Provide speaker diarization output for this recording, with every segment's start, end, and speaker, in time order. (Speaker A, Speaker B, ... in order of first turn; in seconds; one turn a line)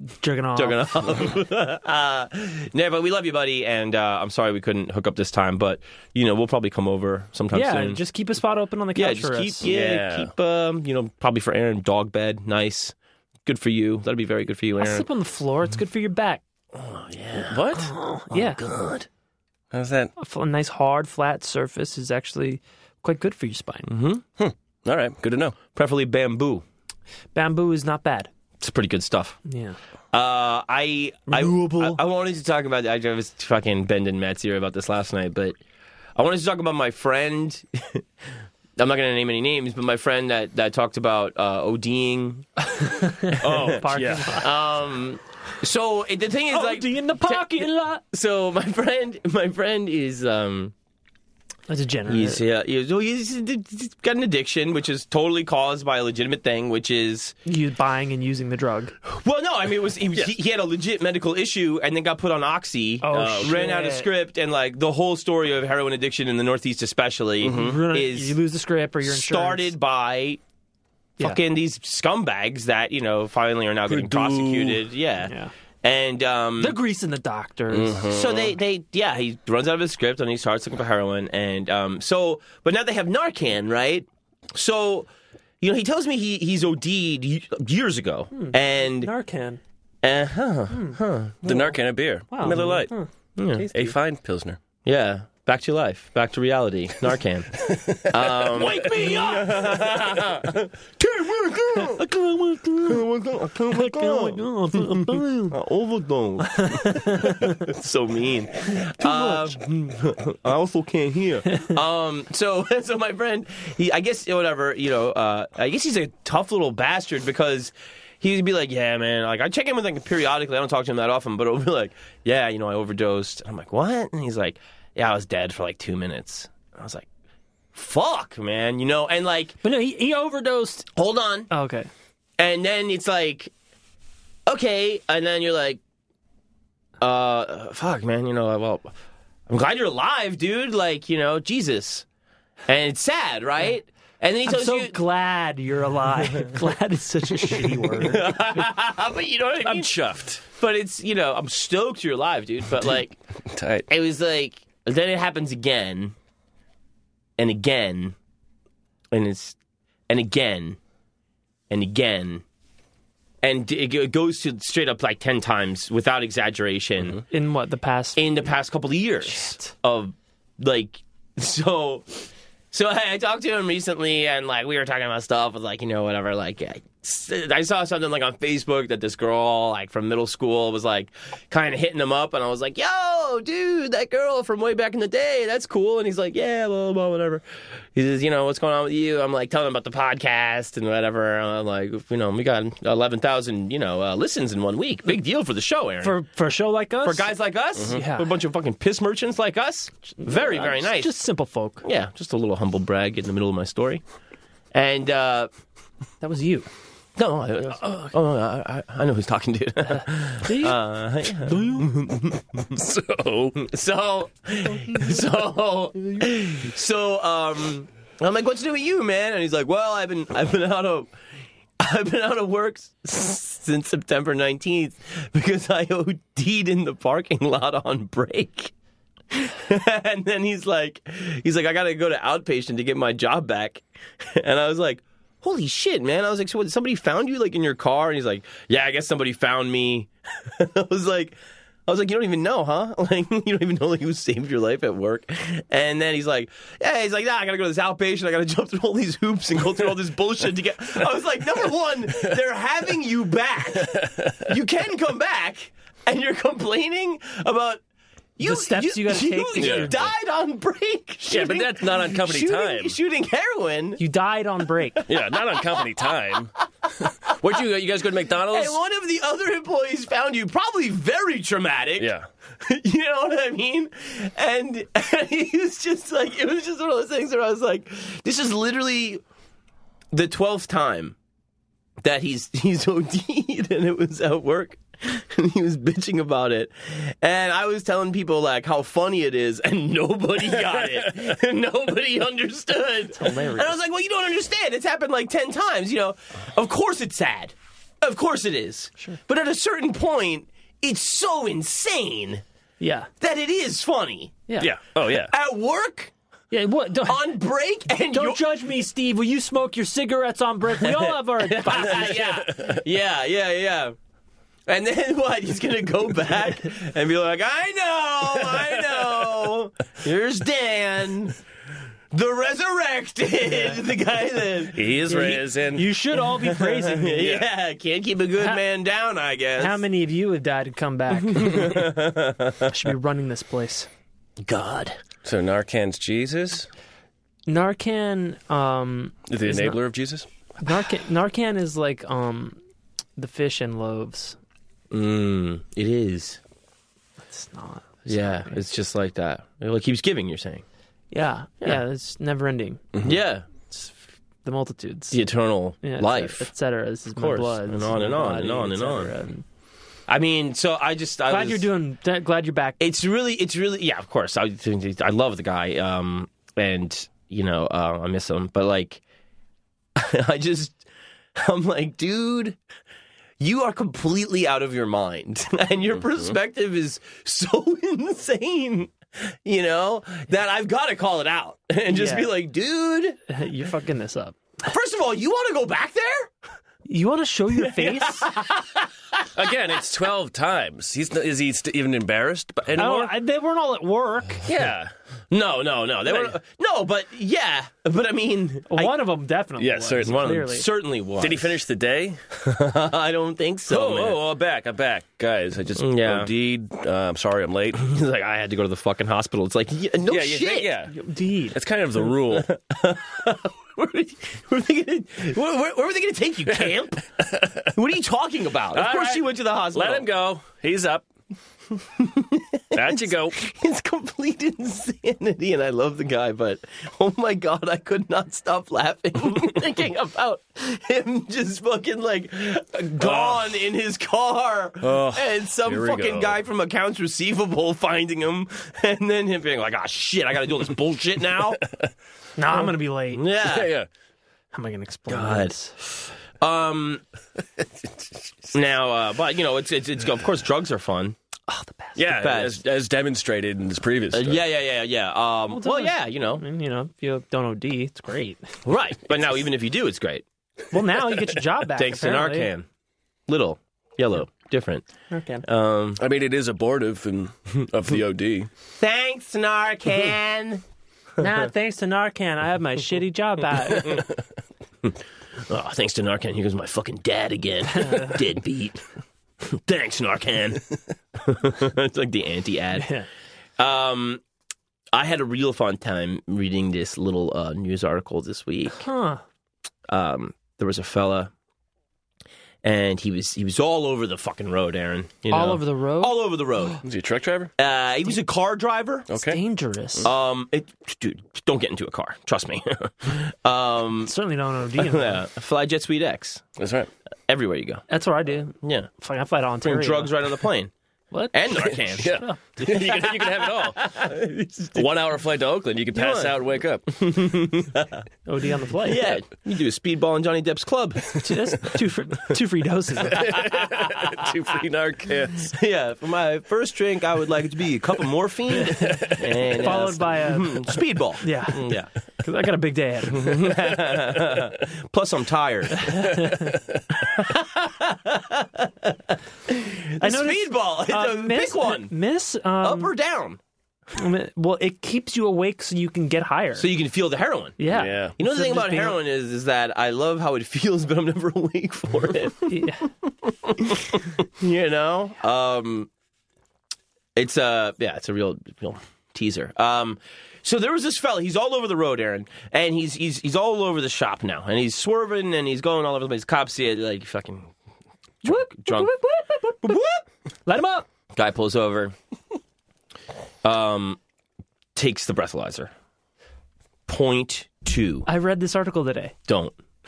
Speaker A: 0.2-1.3
Speaker B: 0.6-8.0
Speaker A: 7.5-9.7
Speaker B: 9.0-12.9
Speaker C: 9.7-10.3
Speaker B: 13.5-15.1
Speaker A: 14.8-16.4
Speaker B: 16.7-19.1
Speaker C: 17.4-17.9
Speaker A: 17.8-18.6
Speaker C: 19.7-20.1
Speaker A: 20.2-23.9
Speaker B: 23.9-24.2
Speaker C: 24.4-25.6
Speaker B: 25.7-26.6
Speaker A: 27.3-28.3
Speaker B: 28.6-29.4
Speaker A: 29.5-29.8
Speaker B: 30.1-35.6
Speaker A: 31.3-32.0
Speaker B: 36.2-38.0
Speaker B: 38.8-43.8
Speaker A: 42.8-44.5
Speaker C: 43.4-44.5
Speaker B: 44.4-50.7
Speaker A: 46.5-48.0
Speaker A: 51.7-52.4
Speaker B: 52.1-57.4
Speaker A: 57.5-59.0
Speaker B: 59.0-68.4
Speaker A: 63.0-64.1
Speaker C: 63.1-63.7
Speaker C: 67.4-67.8
Speaker A: 67.5-69.7
Speaker B: 69.0-70.4
Speaker B: 71.2-75.3
Speaker C: 73.9-74.8
Speaker A: 75.3-75.5
Speaker B: 75.8-76.8
Speaker A: 76.6-78.0
Speaker C: 77.7-78.5
Speaker B: 78.0-85.1
Speaker B: 85.6-89.1
Speaker A: 88.3-89.6
Speaker B: 90.0-91.4
Speaker A: 90.7-91.7
Speaker C: 91.4-92.9
Speaker A: 92.3-94.0
Speaker B: 93.4-93.7
Speaker C: 93.7-94.6
Speaker B: 94.8-102.1
Speaker C: 97.7-100.4
Speaker A: 98.9-99.3
Speaker C: 101.2-101.8
Speaker A: 101.8-103.0
Speaker B: 102.8-127.1
Speaker A: 103.7-105.5
Speaker A: 106.5-107.7
Speaker A: 109.0-109.6
Speaker B: 127.7-129.6
Speaker A: 129.6-130.9
Speaker B: 131.0-131.5
Speaker A: 131.5-131.9
Speaker B: 132.4-133.5
Speaker B: 134.5-135.8
Speaker B: 137.0-138.9
Speaker B: 139.5-142.1
Speaker B: 142.7-145.0
Speaker A: 144.5-148.3
Speaker B: 147.5-153.2
Speaker C: 149.6-150.4
Speaker C: 153.5-153.9
Speaker B: 153.9-156.1
Speaker B: 157.4-158.2
Speaker B: 159.1-159.6
Speaker B: 160.1-160.8
Speaker B: 161.7-162.4
Speaker B: 163.4-167.2
Speaker A: 167.3-168.3
Speaker B: 168.2-187.4
Speaker A: 169.3-169.7
Speaker B: 187.9-196.2
Speaker A: 196.0-197.3
Speaker B: 197.0-201.2
Speaker A: 197.9-198.3
Speaker A: 200.2-201.8
Speaker B: 201.8-204.0
Speaker B: 204.7-205.5
Speaker A: 206.2-206.7
Speaker B: 207.2-212.7
Speaker A: 209.9-210.8
Speaker A: 211.4-211.9
Speaker C: 212.7-213.6
Speaker B: 213.6-221.1
Speaker A: 214.8-215.1
Speaker B: 221.8-228.7
Speaker B: 229.3-241.4
Speaker B: 241.9-257.8
Speaker C: 253.8-254.4
Speaker B: 258.4-264.0
Speaker A: 258.4-260.0
Speaker C: 259.6-259.9
Speaker C: 261.3-262.9
Speaker A: 264.0-265.0
Speaker B: 265.0-266.0
Speaker C: 265.1-266.5
Speaker C: 267.1-268.8
Speaker B: 268.5-272.1
Speaker C: 272.0-272.3
Speaker B: 272.6-279.2
Speaker B: 280.1-281.1
Speaker B: 282.0-302.4
Speaker A: 293.1-293.7
Speaker A: 302.8-303.1
Speaker B: 303.2-304.5
Speaker C: 304.6-305.3
Speaker B: 305.1-306.1
Speaker A: 306.5-307.3
Speaker B: 307.1-308.5
Speaker A: 308.1-312.1
Speaker B: 310.8-313.9
Speaker C: 312.1-312.7
Speaker B: 314.7-321.4
Speaker B: 322.1-325.5
Speaker A: 323.4-323.8
Speaker C: 324.7-325.9
Speaker A: 325.1-327.3
Speaker B: 326.2-329.8
Speaker C: 327.2-327.5
Speaker A: 329.6-331.9
Speaker B: 331.3-332.7
Speaker A: 332.6-333.9
Speaker B: 334.4-335.0
Speaker C: 335.2-336.7
Speaker A: 337.5-339.8
Speaker C: 339.3-340.3
Speaker A: 340.6-342.6
Speaker A: 343.2-344.4
Speaker B: 344.9-346.4
Speaker A: 347.3-348.6
Speaker B: 348.1-350.6
Speaker A: 351.1-352.8
Speaker B: 353.0-353.5
Speaker A: 353.7-355.2
Speaker B: 355.1-356.5
Speaker A: 355.8-359.4
Speaker B: 357.1-359.1
Speaker B: 360.1-361.7
Speaker A: 361.3-362.8
Speaker B: 362.8-369.0
Speaker B: 370.0-370.8
Speaker B: 371.4-372.6
Speaker B: 373.4-383.2
Speaker A: 381.9-382.3
Speaker A: 383.3-384.4
Speaker B: 384.6-386.3
Speaker A: 386.9-388.3
Speaker B: 387.6-389.3
Speaker C: 389.4-393.1
Speaker A: 392.8-394.5
Speaker C: 394.5-394.9
Speaker B: 395.3-398.9
Speaker A: 398.7-400.7
Speaker C: 399.6-400.4
Speaker B: 400.0-401.6
Speaker C: 401.2-402.2
Speaker B: 402.3-404.2
Speaker C: 403.7-407.8
Speaker B: 405.8-406.3
Speaker B: 407.8-410.7
Speaker C: 410.1-411.0
Speaker A: 410.9-411.6
Speaker C: 411.5-412.5
Speaker B: 412.1-417.0
Speaker C: 416.5-417.7
Speaker B: 417.7-420.1
Speaker C: 418.7-421.1
Speaker B: 422.0-441.6
Speaker C: 422.7-423.4
Speaker C: 433.0-433.4
Speaker C: 434.8-436.4
Speaker A: 442.4-443.2
Speaker B: 443.1-443.7
Speaker C: 443.4-443.9
Speaker A: 444.5-445.7
Speaker B: 445.1-445.6
Speaker B: 446.4-447.0
Speaker B: 448.5-451.1
Speaker A: 451.5-452.0
Speaker C: 452.0-454.4
Speaker B: 452.1-452.6
Speaker B: 454.1-456.4
Speaker A: 455.5-458.6
Speaker B: 458.7-460.2
Speaker A: 460.7-462.5
Speaker B: 461.8-462.7
Speaker B: 463.3-464.9
Speaker A: 465.1-465.4
Speaker B: 465.4-466.0
Speaker C: 466.0-468.5
Speaker B: 468.8-470.6
Speaker A: 471.2-474.0
Speaker B: 475.5-478.8
Speaker A: 477.7-478.2
Speaker B: 479.5-480.6
Speaker B: 481.2-482.9
Speaker A: 482.8-483.1
Speaker B: 483.6-484.2
Speaker B: 484.9-488.9
Speaker A: 488.7-489.2
Speaker B: 489.9-491.3
Speaker B: 492.6-496.8
Speaker A: 495.3-496.2
Speaker C: 496.8-497.5
Speaker B: 497.6-499.1
Speaker C: 499.1-499.4
Speaker A: 499.1-500.1
Speaker B: 500.0-504.1
Speaker A: 504.1-505.2
Speaker B: 504.8-506.4
Speaker C: 506.6-506.9
Speaker B: 507.3-507.9
Speaker A: 507.9-510.2
Speaker B: 508.6-508.9
Speaker B: 509.6-510.7
Speaker A: 511.1-512.4
Speaker B: 511.3-514.9
Speaker C: 511.9-513.8
Speaker C: 514.8-516.9
Speaker B: 515.9-518.0
Speaker A: 518.3-519.2
Speaker B: 518.8-521.3
Speaker A: 521.2-523.2
Speaker C: 523.0-525.5
Speaker B: 523.2-524.2
Speaker B: 525.5-531.9
Speaker A: 528.8-530.6
Speaker C: 528.9-529.5
Speaker A: 531.2-533.4
Speaker B: 533.1-536.0
Speaker A: 535.8-536.6
Speaker C: 536.5-536.8
Speaker B: 537.0-541.9
Speaker A: 540.0-542.9
Speaker B: 542.6-543.4
Speaker A: 544.0-546.7
Speaker B: 546.6-547.7
Speaker A: 547.6-549.0
Speaker C: 547.7-548.1
Speaker B: 548.2-552.7
Speaker A: 552.5-552.9
Speaker B: 553.2-555.9
Speaker B: 557.2-567.5
Speaker B: 568.2-568.9
Speaker A: 568.2-569.8
Speaker B: 569.6-570.0
Speaker A: 570.5-570.9
Speaker B: 571.1-571.9
Speaker B: 573.4-574.0
Speaker B: 574.8-575.7
Speaker B: 576.9-578.1
Speaker A: 578.1-579.1
Speaker B: 579.3-579.5